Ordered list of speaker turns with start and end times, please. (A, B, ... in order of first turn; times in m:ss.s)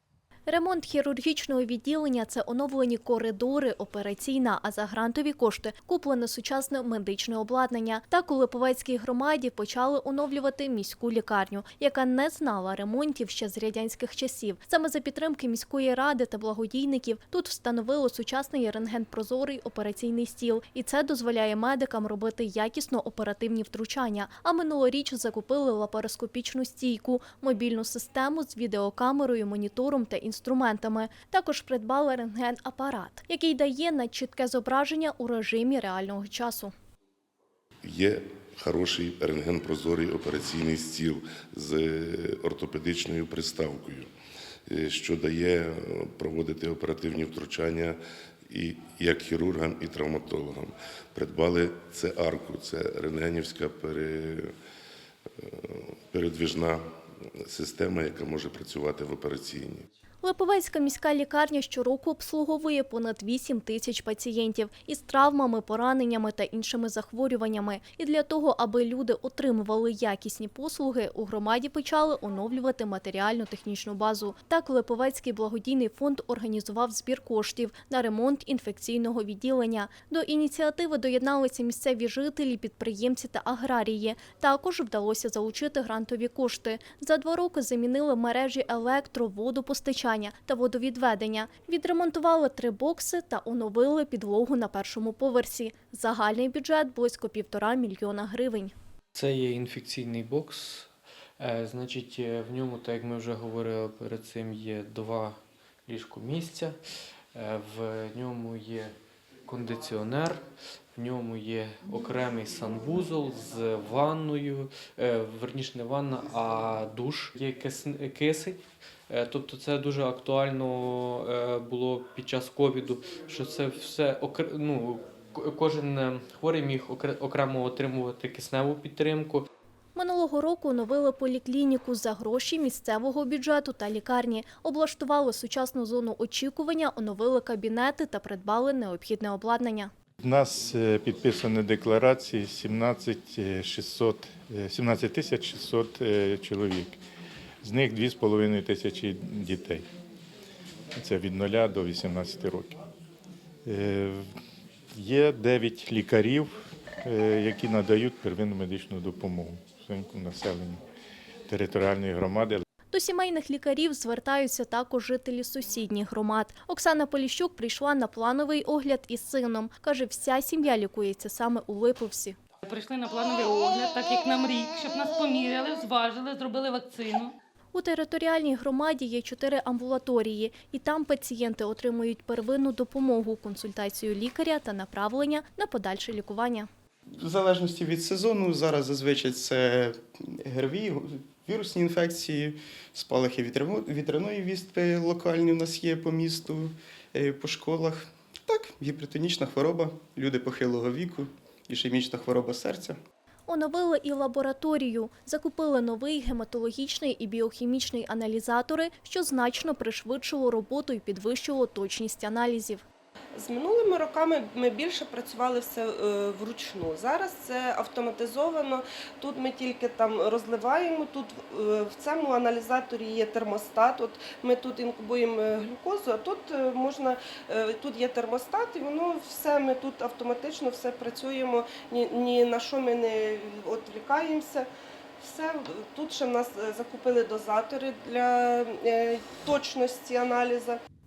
0:00.5-0:36.7 A
0:37.8-0:44.1 B
0:44.7-0:48.0 B
0:48.5-0:54.5 B
0:55.4-0:56.8 B
0:57.4-0:59.8 B
1:00.2-1:38.7 A
1:39.1-1:46.8 C
1:47.3-1:48.9 C
1:49.4-1:50.4 C
1:50.9-2:09.5 C
2:09.9-2:19.9 A
2:20.2-2:27.0 D
2:27.6-2:29.8 D
2:31.0-2:32.8 D
2:33.6-2:34.2 D
2:34.9-2:36.5 D
2:37.0-2:40.8 D
2:41.5-2:42.6 D
2:42.9-2:52.4 A
2:52.6-2:57.3 E
2:57.7-3:06.7 A
3:07.2-3:23.0 F
3:23.5-3:32.8 A
3:33.3-3:54.7 G
3:55.2-4:00.8 G